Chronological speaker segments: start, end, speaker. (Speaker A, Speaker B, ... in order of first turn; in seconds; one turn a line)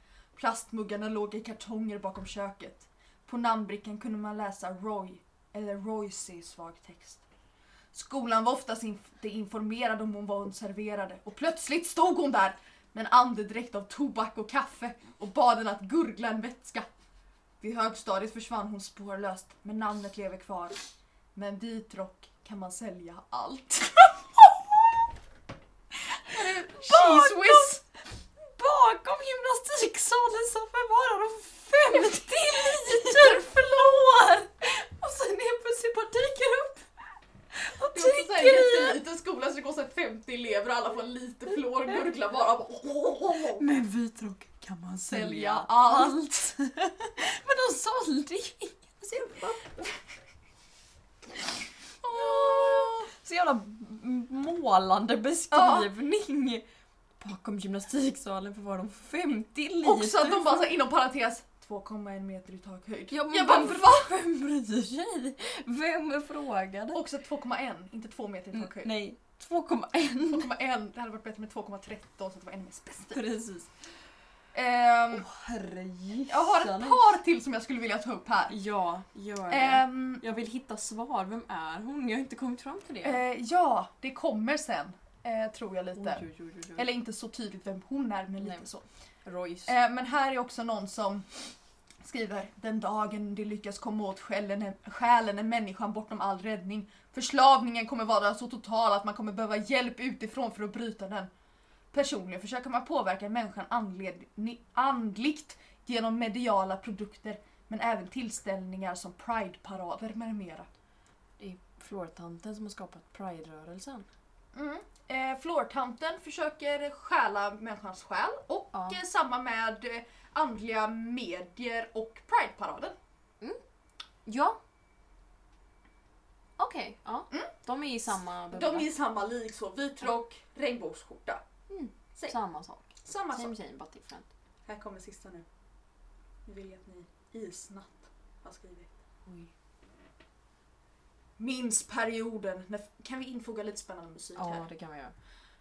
Speaker A: 0.4-7.2
Speaker A: 7.9-16.9
Speaker A: 17.6-20.8
Speaker A: 21.4-24.5
Speaker A: 26.2-27.8
Speaker B: 26.3-27.8
Speaker B: 28.6-36.9
Speaker A: 32.9-33.5
Speaker B: 37.5-39.0
Speaker A: 37.9-43.7
Speaker B: 43.6-49.9
Speaker A: 45.1-46.2
Speaker A: 52.0-53.1
Speaker B: 52.1-56.6
Speaker A: 55.5-55.9
Speaker B: 57.2-60.7
Speaker A: 59.8-64.1
Speaker B: 63.1-67.0
Speaker A: 66.9-68.9
Speaker B: 68.5-70.5
Speaker A: 70.3-73.2
Speaker B: 73.1-73.7
Speaker A: 74.5-75.3
Speaker B: 75.1-77.2
Speaker A: 76.3-78.6
Speaker B: 78.5-83.2
Speaker A: 79.5-80.2
Speaker A: 83.0-88.8
Speaker B: 86.0-86.9
Speaker B: 88.4-88.7
Speaker B: 89.2-89.7
Speaker A: 89.7-91.3
Speaker A: 92.0-101.3
Speaker A: 101.9-110.7
Speaker B: 111.4-114.1
Speaker A: 114.5-123.0
Speaker B: 118.7-119.0
Speaker B: 124.3-124.6
Speaker B: 126.6-128.9
Speaker A: 128.5-131.4
Speaker B: 131.7-134.3
Speaker A: 133.0-133.6
Speaker A: 134.7-135.4
Speaker A: 136.5-138.9
Speaker A: 141.4-144.7
Speaker B: 144.4-145.2